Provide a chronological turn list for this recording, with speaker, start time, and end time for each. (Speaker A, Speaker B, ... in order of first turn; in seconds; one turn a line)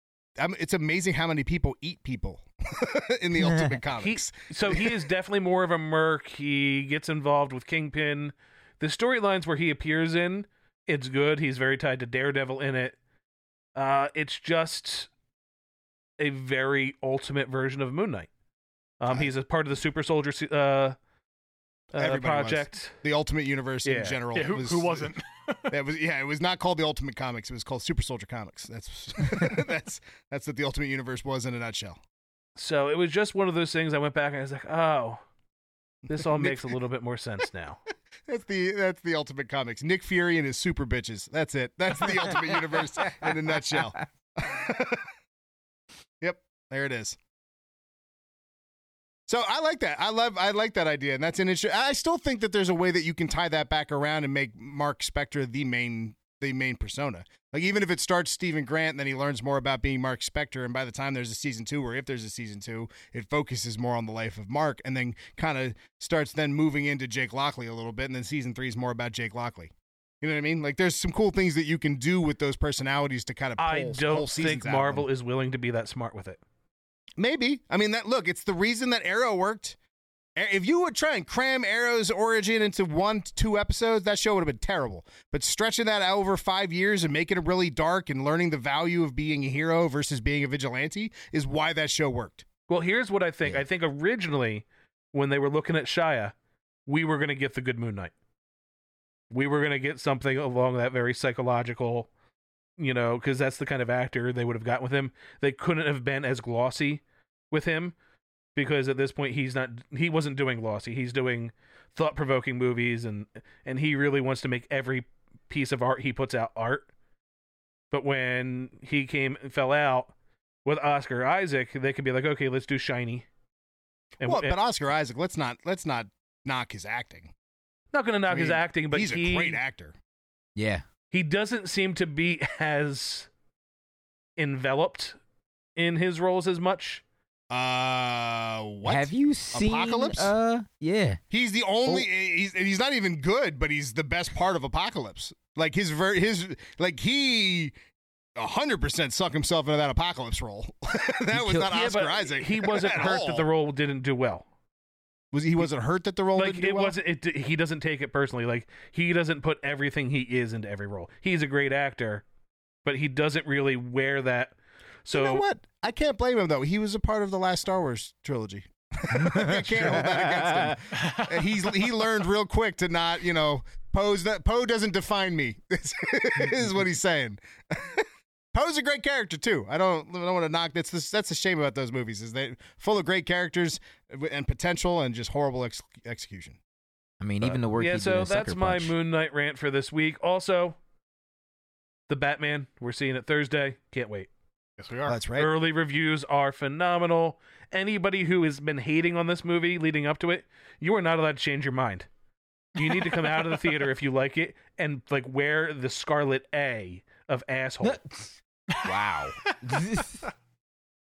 Speaker A: 0.4-5.0
Speaker B: 3.4-3.8
Speaker C: 4.0-13.0
Speaker C: 13.8-15.1
Speaker C: 16.2-18.3
Speaker C: 19.0-21.0
Speaker C: 21.9-23.0
Speaker A: 22.0-25.1
Speaker C: 23.9-24.2
Speaker D: 24.3-25.7
Speaker A: 25.7-32.0
Speaker C: 32.6-35.2
Speaker A: 36.1-36.8
Speaker C: 36.1-37.8
Speaker A: 38.3-45.0
Speaker A: 46.2-47.2
Speaker A: 49.3-75.1
Speaker C: 73.6-76.4
Speaker A: 77.2-79.8
Speaker A: 80.4-92.5
Speaker C: 92.7-96.3
Speaker C: 96.9-98.1
Speaker C: 99.3-102.1
Speaker C: 102.8-108.0
Speaker C: 108.5-116.9
Speaker C: 117.9-120.1
Speaker C: 120.7-123.3
Speaker C: 124.2-124.6
Speaker A: 124.2-127.3
Speaker C: 127.9-129.6
Speaker A: 128.3-130.0
Speaker B: 130.6-130.8
Speaker C: 131.1-133.3
Speaker C: 134.4-135.2
Speaker C: 135.8-137.0
Speaker A: 137.5-140.3
Speaker B: 138.9-141.2
Speaker A: 141.3-147.8
Speaker A: 148.4-153.5
Speaker C: 151.3-154.5
Speaker A: 155.3-157.0
Speaker C: 156.4-162.2
Speaker C: 162.8-165.4
Speaker A: 165.1-186.6
Speaker B: 169.2-170.7
Speaker D: 170.9-171.7
Speaker B: 187.2-188.9
Speaker C: 187.8-190.8
Speaker C: 192.1-194.3
Speaker D: 194.8-195.2
Speaker A: 195.1-195.5
Speaker C: 195.4-202.1
Speaker C: 202.8-208.0
Speaker D: 202.8-203.6
Speaker B: 207.8-210.3
Speaker D: 208.8-209.5